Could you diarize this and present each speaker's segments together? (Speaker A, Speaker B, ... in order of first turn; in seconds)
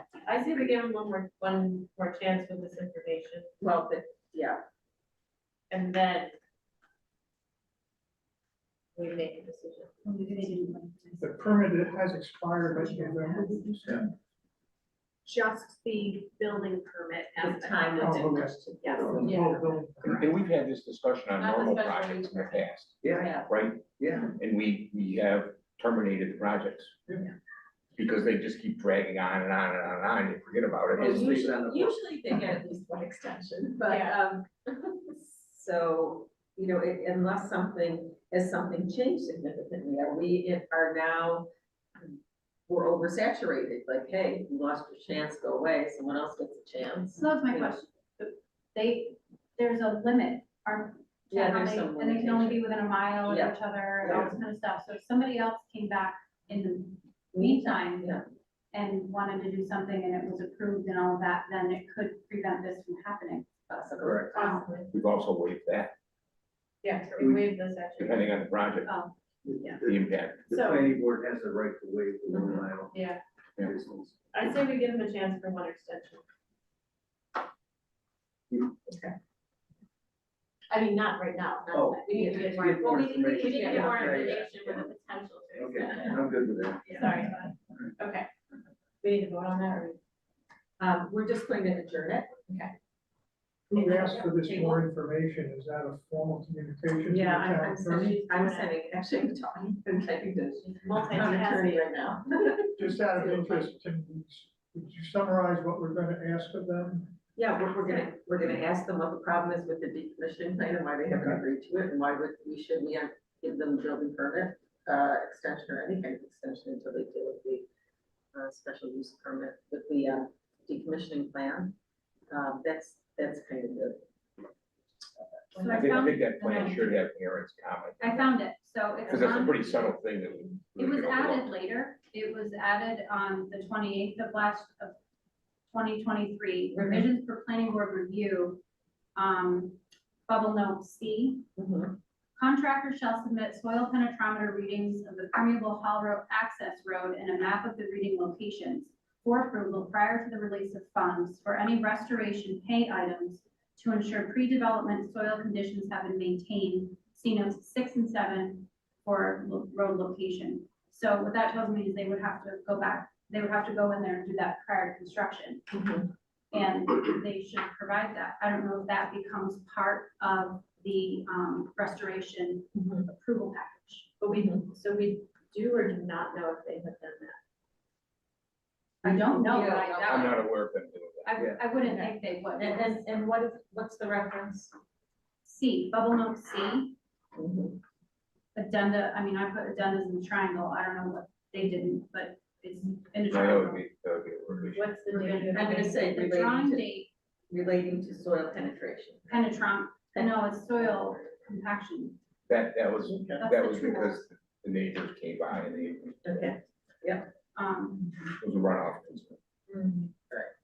Speaker A: 0.2-3.5, 5.7-6.3, 9.0-9.9, 15.3-18.2, 18.8-19.7, 21.4-22.6, 33.9-34.2, 64.3-64.9, 66.8-68.4, 70.5-70.9, 72.9-73.2, 74.3-76.2, 80.7-86.3, 86.8-88.3, 89.0-90.0, 92.5-92.7, 97.3-98.7, 100.8-102.0, 174.2-177.4, 179.5-180.3, 194.8-196.1
Speaker B: 3.6-4.6, 17.4-19.6, 23.1-23.5, 31.0-41.5, 42.7-47.8, 51.3-52.7, 53.2-54.3, 57.3-58.2, 63.9-64.4, 72.3-72.6, 82.8-84.4, 90.8-92.4, 93.8-94.9, 97.1-103.5, 107.4-117.7, 118.3-121.8, 122.3-124.0, 136.8-137.1, 141.6-142.0, 165.7-166.1, 172.8-173.0, 174.3-174.6, 179.1-180.3, 181.8-184.7, 187.3-187.8, 195.5-196.9, 197.5-199.4, 200.1-201.2, 203.1-203.4, 206.2-207.3, 209.7-210.5
Speaker C: 10.0-11.7, 12.7-13.7, 47.1-58.2, 58.7-64.8, 125.6-127.0, 128.0-130.0, 130.8-135.0, 135.7-138.6, 139.2-141.5, 142.4-165.6, 166.5-174.2, 179.0-180.4, 181.2-183.1, 185.4-187.0, 188.6-193.8, 195.1-197.1, 199.3-202.2, 203.4-204.2, 207.6-208.2
Speaker D: 11.2-14.1, 18.0-20.1, 93.7-98.1, 102.8-107.1
Speaker E: 20.0-26.9, 28.0-31.5, 64.9-65.9, 68.0-68.9, 69.8-70.5, 125.7-128.2, 129.1-131.5, 180.1-181.3, 193.3-194.9, 202.5-206.2, 208.3-209.4
Speaker F: 23.0-23.4, 24.0-24.4, 30.9-32.0, 64.0-64.4, 69.5-73.0, 73.6-74.2, 81.7-84.9, 85.5-87.3, 181.4-181.6